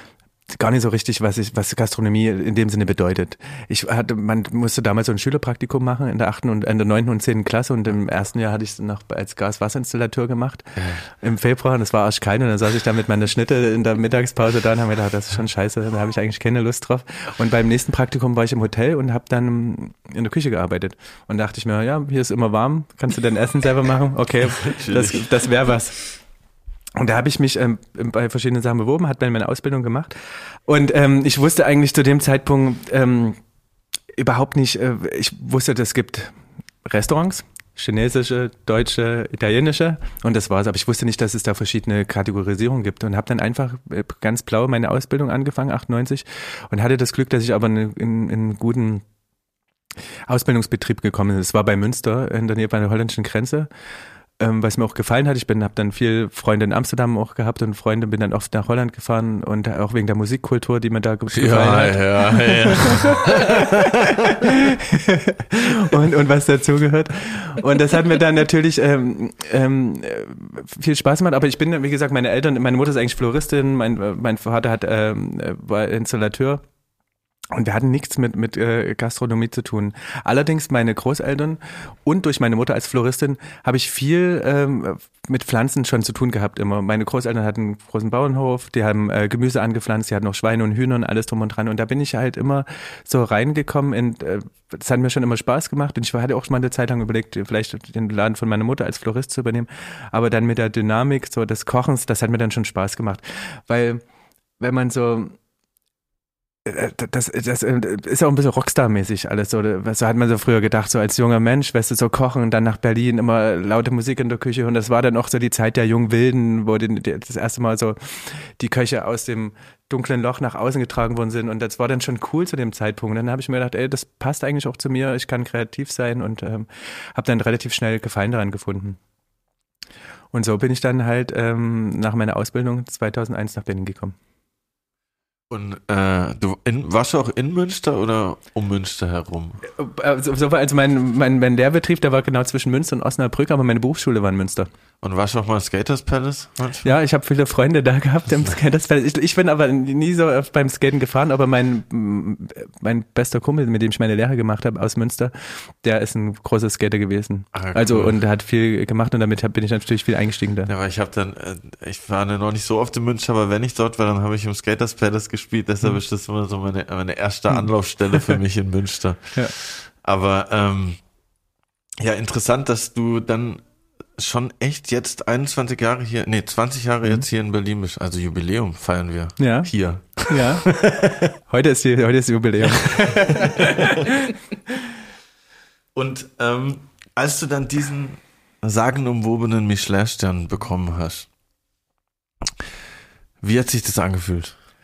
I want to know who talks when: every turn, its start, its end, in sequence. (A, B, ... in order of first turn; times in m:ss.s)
0:00.5-0:26.0 A
0:10.8-0:11.0 B
0:24.5-0:25.3 B
0:27.0-0:30.1 A
0:30.7-0:33.4 A
0:34.2-0:36.3 A
0:36.8-0:49.0 A
0:50.3-0:53.7 A
0:54.4-1:16.6 A
1:01.3-1:04.4 B
1:17.5-1:44.0 A
1:44.6-1:45.4 A
1:46.6-2:09.0 A
2:10.3-2:14.2 A
2:15.5-2:19.6 B
2:19.7-2:24.7 A
2:25.0-2:26.9 B
2:26.8-2:40.7 A
2:37.5-2:38.2 B
2:40.7-2:51.0 B
2:47.5-2:48.4 A
2:52.0-2:53.6 B
2:54.2-3:01.2 B
2:59.4-3:00.8 A
3:01.4-3:04.3 A
3:02.7-3:03.9 B
3:05.9-3:11.3 B
3:13.4-3:14.6 B